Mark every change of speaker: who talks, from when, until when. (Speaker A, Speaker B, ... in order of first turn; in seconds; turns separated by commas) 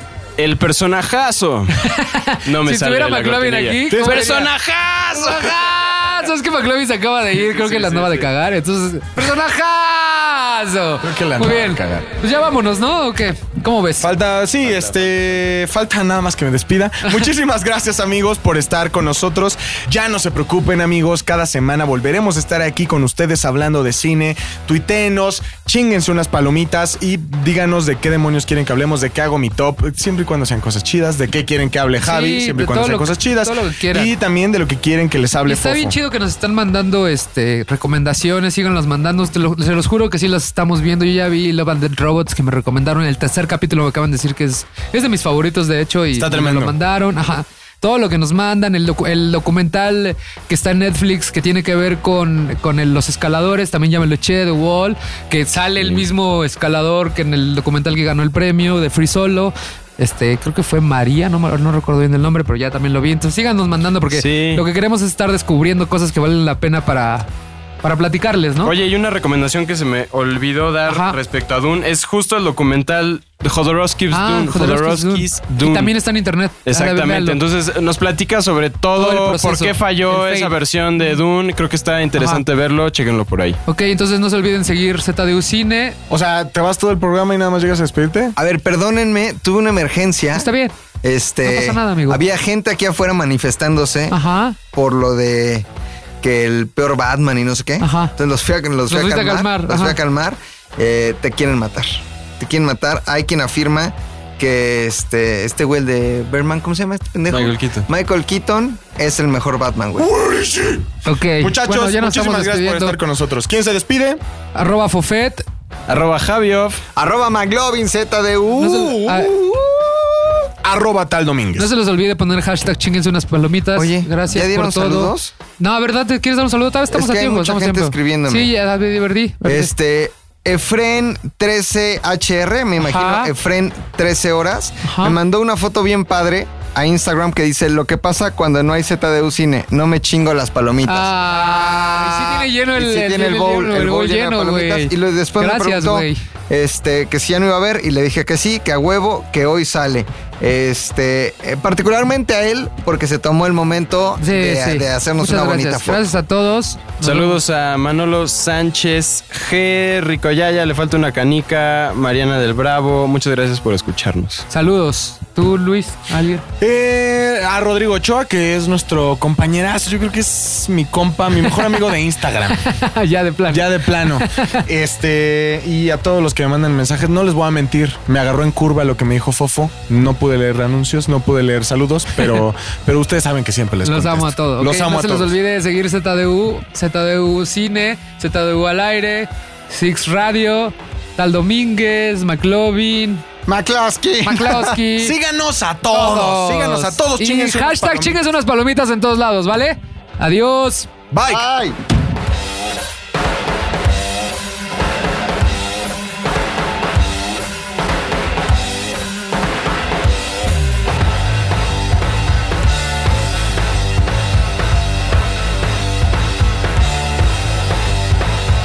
Speaker A: 0.4-1.8, Speaker B: 1.8-4.5, Speaker A: 2.4-5.7, Speaker C: 3.9-4.4, Speaker B: 5.2-14.1, Speaker A: 7.3-8.3, Speaker C: 11.0-12.1, Speaker C: 14.0-36.0, Speaker B: 32.0-34.1, Speaker B: 35.5-67.3, Speaker C: 46.1-46.8, Speaker A: 64.1-64.7, Speaker B: 67.8-68.7, Speaker A: 68.6-75.9, Speaker B: 70.9-71.2, Speaker B: 74.1-77.4, Speaker A: 76.7-83.6, Speaker B: 78.9-80.5, Speaker B: 82.2-82.4, Speaker B: 83.7-86.0, Speaker C: 86.1-88.3, Speaker D: 88.4-90.5, Speaker B: 90.3-90.7, Speaker D: 91.0-94.2, Speaker B: 91.4-92.2, Speaker B: 94.1-94.6, Speaker D: 94.7-95.7, Speaker D: 96.2-110.1, Speaker B: 97.8-98.1, Speaker B: 98.8-100.0, Speaker A: 107.3-107.9, Speaker C: 110.0-114.2, Speaker B: 111.0-113.0, Speaker B: 114.5-115.4, Speaker A: 115.9-116.8, Speaker D: 116.9-120.5, Speaker B: 118.6-119.3, Speaker C: 120.6-121.7, Speaker B: 121.5-129.7, Speaker D: 123.8-125.3, Speaker D: 126.9-128.5, Speaker D: 129.4-156.1, Speaker B: 132.8-133.3, Speaker B: 134.8-135.2, Speaker B: 140.8-146.2, Speaker B: 154.2-157.4, Speaker A: 157.0-164.4, Speaker B: 164.5-166.4, Speaker C: 166.6-172.6, Speaker B: 171.4-171.9, Speaker B: 172.5-174.6, Speaker C: 173.5-185.3, Speaker B: 183.8-193.2, Speaker D: 193.4-194.7, Speaker B: 194.2-195.2, Speaker C: 195.0-198.3, Speaker B: 195.9-200.9, Speaker C: 201.1-201.4, Speaker D: 201.3-201.8